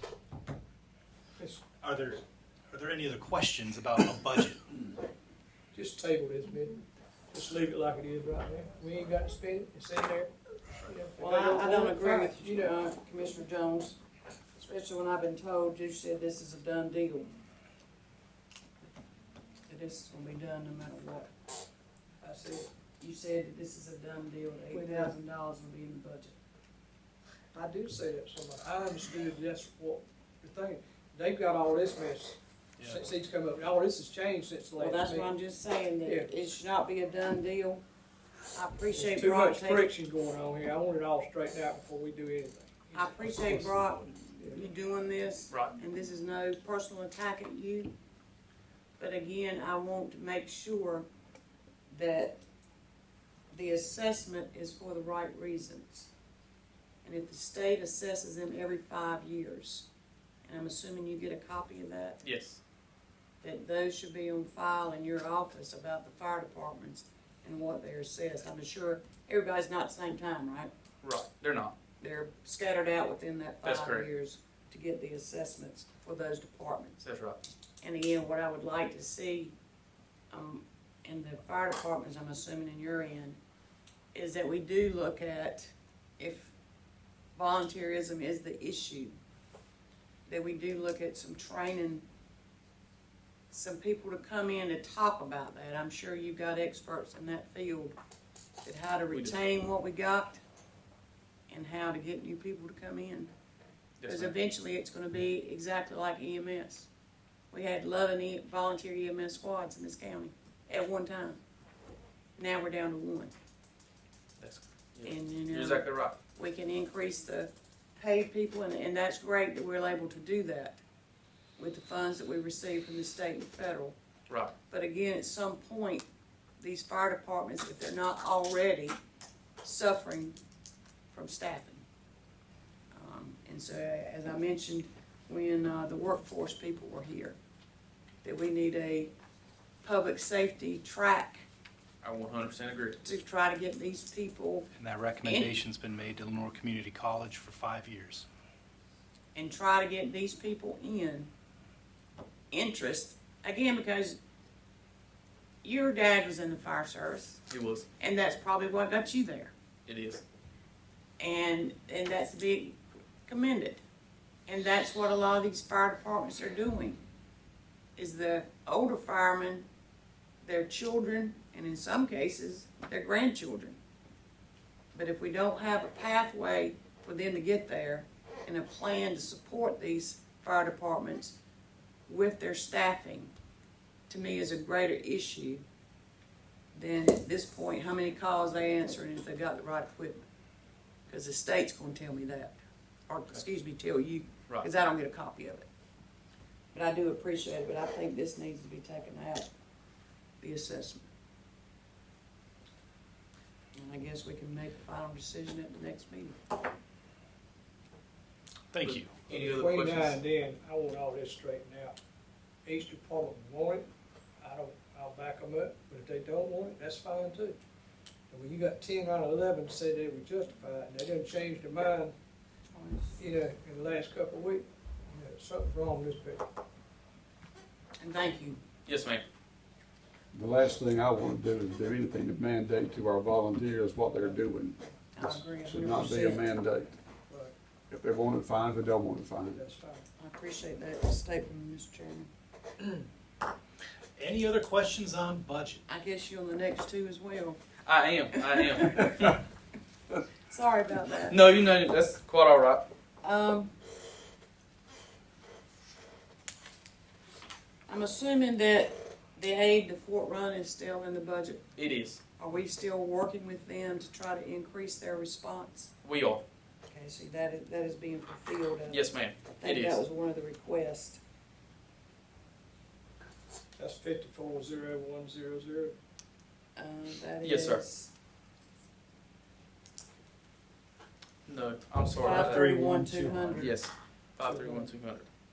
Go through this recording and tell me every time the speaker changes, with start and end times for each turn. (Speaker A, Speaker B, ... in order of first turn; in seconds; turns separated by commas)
Speaker A: 1.4-1.7, Speaker B: 1.8-4.7, Speaker A: 5.7-6.8, Speaker A: 7.3-12.8, Speaker C: 11.2-14.0, Speaker C: 14.5-17.3, Speaker C: 19.7-21.3, Speaker A: 22.2-22.7, Speaker C: 23.0-26.4, Speaker A: 24.7-25.1, Speaker A: 27.5-35.3, Speaker C: 34.8-37.8, Speaker A: 36.0-36.3, Speaker C: 38.5-39.9, Speaker A: 38.9-44.6, Speaker C: 42.9-47.9, Speaker C: 49.0-51.1, Speaker C: 51.9-52.4, Speaker C: 53.5-56.1, Speaker C: 57.0-59.9, Speaker C: 60.5-62.2, Speaker D: 62.2-62.6, Speaker C: 63.4-70.7, Speaker D: 71.0-71.7, Speaker C: 72.0-77.0, Speaker D: 73.6-74.1, Speaker D: 77.0-77.4, Speaker C: 77.8-79.5, Speaker C: 80.3-83.4, Speaker C: 84.1-86.5, Speaker C: 87.3-89.2, Speaker C: 90.3-92.0, Speaker C: 93.5-98.0, Speaker C: 98.6-100.4, Speaker C: 101.5-103.3, Speaker D: 104.0-104.3, Speaker C: 104.0-106.9, Speaker C: 107.5-111.4, Speaker C: 112.4-113.3, Speaker D: 114.4-116.2, Speaker C: 115.0-120.8, Speaker C: 121.6-124.0, Speaker C: 124.7-126.1, Speaker C: 126.6-129.0, Speaker C: 129.6-130.3, Speaker C: 131.1-131.8, Speaker C: 132.9-137.4, Speaker C: 138.2-139.1, Speaker C: 139.8-141.4, Speaker D: 142.0-143.0, Speaker C: 143.0-144.7, Speaker B: 144.8-148.2, Speaker C: 145.2-145.6, Speaker C: 149.3-151.3, Speaker C: 152.5-154.2, Speaker C: 155.6-157.4, Speaker D: 157.5-157.9, Speaker C: 158.0-159.5, Speaker D: 159.9-160.2, Speaker C: 161.2-163.8, Speaker C: 164.5-167.0, Speaker C: 167.9-169.7, Speaker C: 170.4-173.8, Speaker C: 174.9-181.3, Speaker C: 182.1-183.3, Speaker C: 184.1-185.6, Speaker C: 186.7-190.2, Speaker C: 191.1-192.6, Speaker C: 193.1-195.7, Speaker C: 196.7-199.5, Speaker C: 200.4-201.1, Speaker C: 203.7-206.4, Speaker B: 208.7-209.2, Speaker D: 208.8-210.2, Speaker A: 209.3-211.9, Speaker A: 212.6-213.9, Speaker A: 214.4-217.6, Speaker A: 218.3-222.1, Speaker C: 222.7-223.2, Speaker A: 223.2-226.4, Speaker C: 228.0-228.6, Speaker D: 228.9-229.2, Speaker E: 230.3-236.9, Speaker C: 235.2-236.5, Speaker A: 237.3-237.5, Speaker E: 237.9-239.6, Speaker A: 239.5-240.1, Speaker C: 240.2-242.3, Speaker B: 244.2-245.8, Speaker C: 245.9-247.6, Speaker D: 247.8-249.2, Speaker C: 248.4-249.3, Speaker C: 250.5-251.4, Speaker D: 251.3-252.8, Speaker C: 253.2-253.7, Speaker C: 257.9-261.7, Speaker D: 261.8-262.2, Speaker C: 262.4-265.9, Speaker D: 266.1-266.4, Speaker C: 266.9-271.2, Speaker D: 268.9-270.0, Speaker A: 273.8-276.0, Speaker C: 276.8-278.1, Speaker D: 277.4-277.8, Speaker D: 281.5-282.7, Speaker C: 282.2-283.8, Speaker A: 282.2-283.7, Speaker B: 282.4-283.5, Speaker D: 283.6-285.3, Speaker C: 284.4-284.9